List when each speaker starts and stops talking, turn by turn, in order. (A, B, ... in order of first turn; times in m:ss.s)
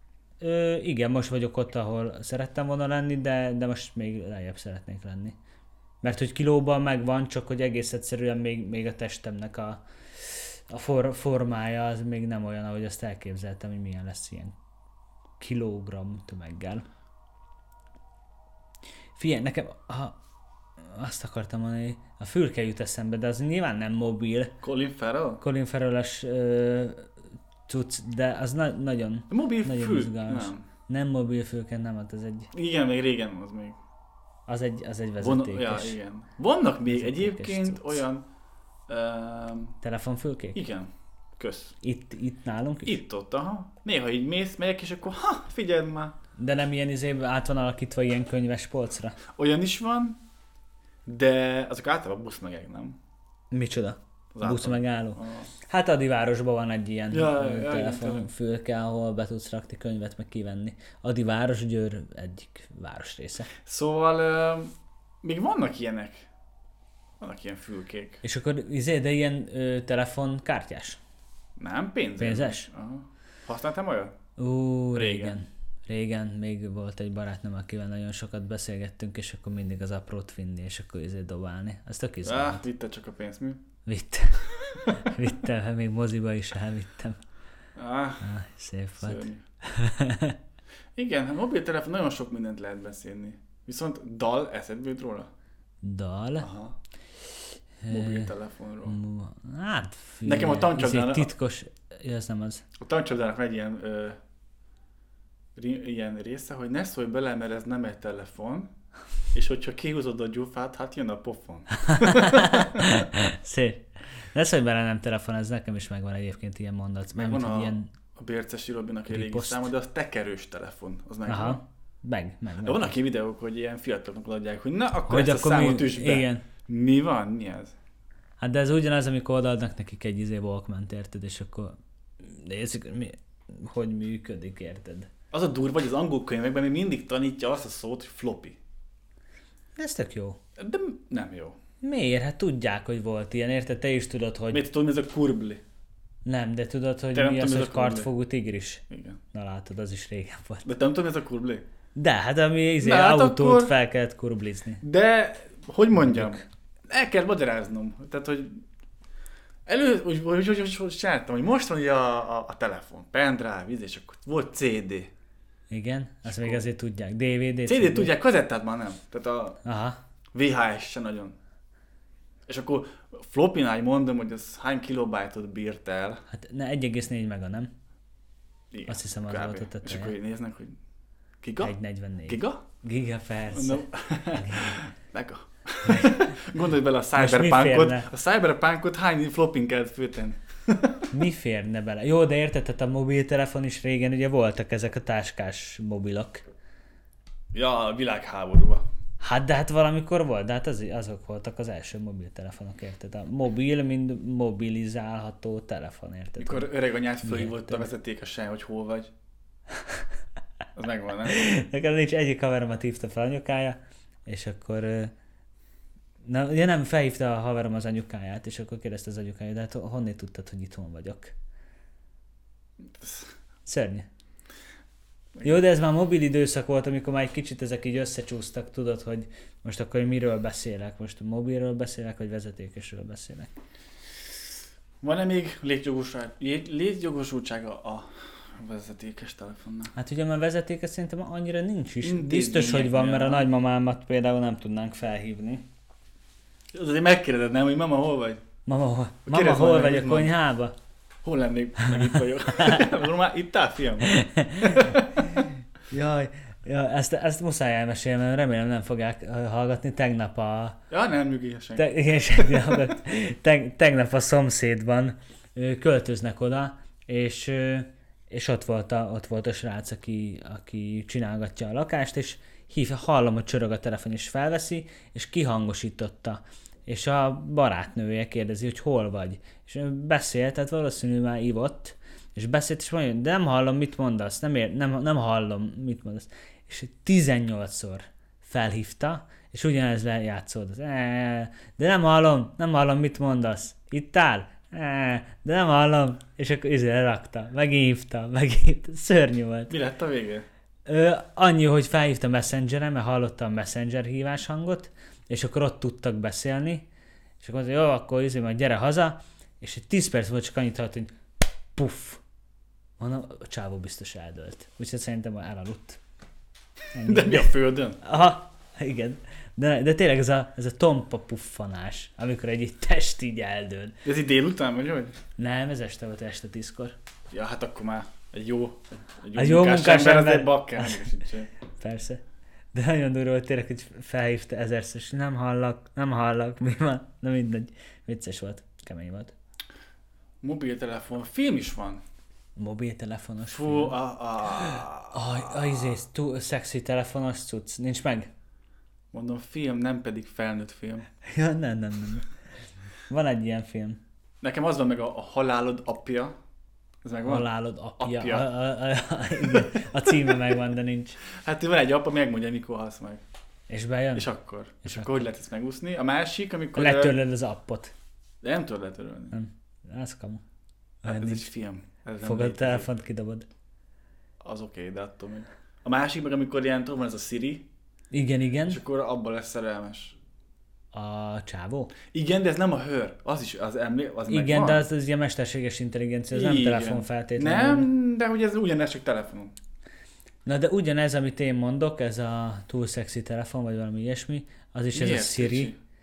0:00.4-0:05.4 A
0:06.0-0:14.6 A
0:15.4-0:16.8 A
0:19.2-0:20.2 A
0:20.8-0:24.5 A
0:24.6-0:25.4 B
0:25.4-0:27.1 A
0:27.7-0:32.5 A
0:29.3-0:30.6 B
0:32.5-0:33.8 B
0:34.5-0:36.0 A
0:35.2-0:38.2 B
0:36.9-0:38.0 A
0:38.9-0:39.8 B
0:39.8-0:40.6 A
0:40.6-0:41.8 B
0:41.8-0:43.0 A
0:42.8-0:46.2 B
0:46.4-0:49.2 A
0:49.4-0:50.2 B
0:51.1-0:53.0 B
0:53.5-1:03.5 A
0:54.3-0:55.5 B
0:57.1-0:58.3 B
1:03.6-1:06.3 B
1:07.2-1:08.2 B
1:08.2-1:11.0 A
1:11.6-1:14.2 B
1:12.2-1:12.7 A
1:14.4-1:22.6 A
1:14.9-1:15.4 B
1:22.2-1:23.6 B
1:23.9-1:27.2 A
1:27.8-1:28.3 B
1:28.2-1:30.4 A
1:29.0-1:29.4 B
1:31.0-1:35.3 B
1:35.8-1:36.5 A
1:36.4-1:36.8 B
1:37.8-1:38.3 A
1:37.9-1:39.0 B
1:38.9-1:42.6 A
1:40.2-1:41.3 B
1:42.8-1:44.2 B
1:45.6-1:48.7 B
1:49.3-1:53.0 B
1:51.8-1:57.9 A
1:57.1-2:01.6 B
1:59.1-1:59.7 A
2:01.3-2:03.0 A
2:02.6-2:07.8 B
2:05.1-2:06.4 A
2:08.4-2:15.1 A
2:15.3-2:18.6 B
2:19.8-2:20.4 A
2:20.6-2:21.6 B
2:21.8-2:24.7 A
2:24.5-2:25.6 B
2:26.3-2:30.7 A
2:27.1-2:28.1 B
2:28.9-2:29.2 B
2:30.6-2:31.6 B
2:32.0-2:34.8 A
2:32.8-2:33.8 B
2:34.8-2:38.6 B
2:35.9-2:36.4 A
2:39.7-2:45.1 B
2:45.7-2:48.1 A
2:46.2-2:46.6 B
2:47.7-2:49.6 B
2:49.6-2:50.0 A
2:50.3-2:51.4 B
2:52.5-2:56.2 B
2:56.3-2:57.7 A
2:58.7-3:00.8 B
2:58.9-3:00.2 A
3:01.4-3:01.8 B
3:01.6-3:04.8 A
3:02.3-3:02.6 B
3:03.5-3:11.1 B
3:05.8-3:06.4 A
3:07.2-3:08.1 A
3:11.1-3:16.4 A
3:17.5-3:18.8 B
3:19.2-3:26.7 A
3:26.4-3:29.1 B
3:27.2-3:27.9 A
3:30.8-3:31.4 B
3:31.3-3:35.1 A
3:36.2-3:41.4 A
3:42.9-3:43.3 B
3:43.7-3:44.1 A
3:45.4-3:53.5 A
3:55.0-3:59.9 B
4:00.0-4:05.6 A
4:02.0-4:03.5 B
4:06.7-4:08.4 B
4:08.7-4:10.7 A
4:09.3-4:10.3 B
4:11.2-4:15.1 B
4:12.0-4:12.9 A
4:14.0-4:20.8 A
4:20.9-4:22.8 B
4:21.8-4:59.7 A
4:59.7-5:00.5 B
5:00.9-5:06.8 A
5:07.4-5:11.1 A
5:11.8-5:12.2 A
5:13.0-5:16.0 A
5:16.9-5:24.0 A
5:17.0-5:18.0 B
5:24.0-5:25.2 B
5:25.4-5:27.0 A
5:27.3-5:31.5 B
5:29.4-5:31.0 A
5:31.8-5:32.2 A
5:32.7-5:39.3 A
5:40.4-5:42.0 B
5:42.6-5:44.0 A
5:43.5-5:45.9 B
5:44.5-5:48.3 A
5:49.1-5:51.1 B
5:51.2-5:52.3 A
5:53.1-5:54.0 A
5:54.4-5:56.4 B
5:57.0-5:57.5 B
5:57.2-6:01.2 A
5:58.0-5:58.5 B
5:59.4-5:59.9 B
6:01.3-6:03.2 B
6:03.7-6:04.3 A
6:04.2-6:07.2 B
6:04.8-6:05.2 A
6:06.8-6:07.9 A
6:08.4-6:09.4 B
6:09.3-6:10.4 A
6:11.0-6:11.5 A
6:11.0-6:12.9 B
6:12.2-6:13.5 A
6:14.4-6:17.7 B
6:18.1-6:18.8 A
6:18.7-6:20.2 B
6:20.9-6:21.9 A
6:22.1-6:24.8 B
6:24.3-6:27.9 A
6:26.3-6:29.6 B
6:30.5-6:35.7 A
6:34.9-6:35.8 B